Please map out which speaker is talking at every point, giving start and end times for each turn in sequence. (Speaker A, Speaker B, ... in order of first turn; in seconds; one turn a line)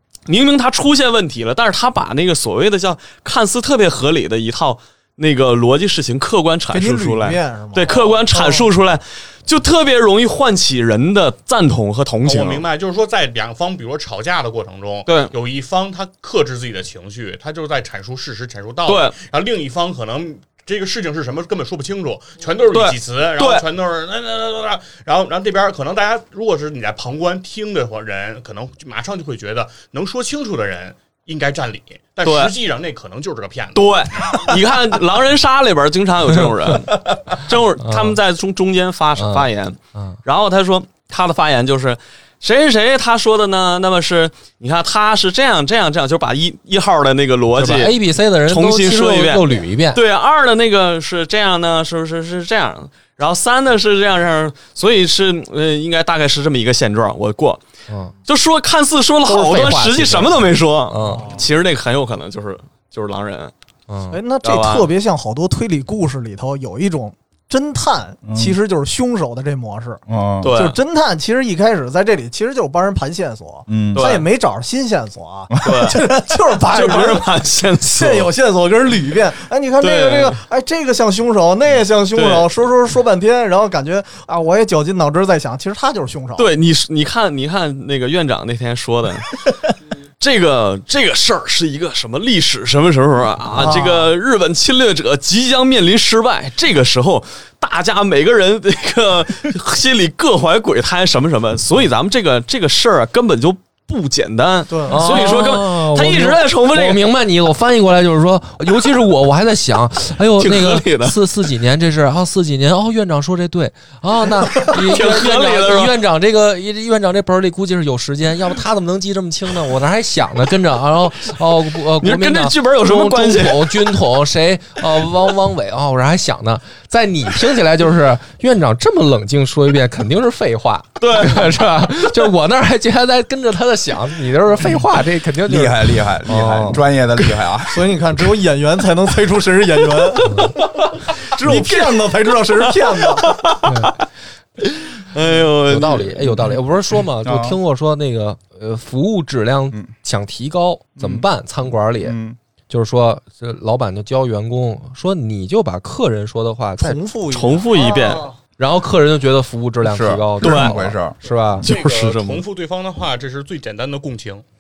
Speaker A: 0.3-12.7
Speaker B: 6.7-8.7
Speaker C: 12.2-34.6
Speaker A: 15.1-15.3
Speaker A: 18.9-19.2
Speaker A: 22.7-23.7
Speaker A: 32.2-32.5
Speaker A: 33.8-57.6
Speaker D: 37.8-38.2
Speaker D: 39.2-40.2
Speaker D: 47.5-50.0
Speaker A: 58.3-63.5
Speaker D: 59.3-61.3
Speaker B: 61.0-61.4
Speaker D: 63.9-64.2
Speaker B: 64.1-77.3
Speaker A: 64.4-64.9
Speaker E: 68.3-68.6
Speaker E: 70.1-70.5
Speaker A: 70.4-70.8
Speaker E: 73.7-74.1
Speaker A: 74.0-74.3
Speaker A: 75.6-76.2
Speaker A: 76.7-78.3
Speaker B: 77.9-86.5
Speaker A: 79.8-80.4
Speaker A: 82.1-82.5
Speaker A: 86.4-107.0
Speaker B: 93.5-94.1
Speaker B: 104.7-105.3
Speaker D: 104.9-136.8
Speaker A: 110.4-111.2
Speaker A: 114.5-116.0
Speaker A: 122.0-124.0
Speaker A: 131.0-131.6
Speaker E: 135.5-137.9
Speaker B: 137.6-143.5
Speaker A: 140.2-144.0
Speaker D: 140.2-140.5
Speaker D: 143.6-143.9
Speaker A: 144.6-146.4
Speaker D: 145.7-152.2
Speaker E: 147.2-147.6
Speaker E: 151.0-151.2
Speaker E: 152.0-152.4
Speaker D: 152.7-157.0
Speaker B: 156.8-158.3
Speaker A: 157.3-158.3
Speaker D: 158.6-161.7
Speaker E: 159.8-161.7
Speaker A: 160.4-160.8
Speaker A: 161.6-162.4
Speaker C: 161.6-164.4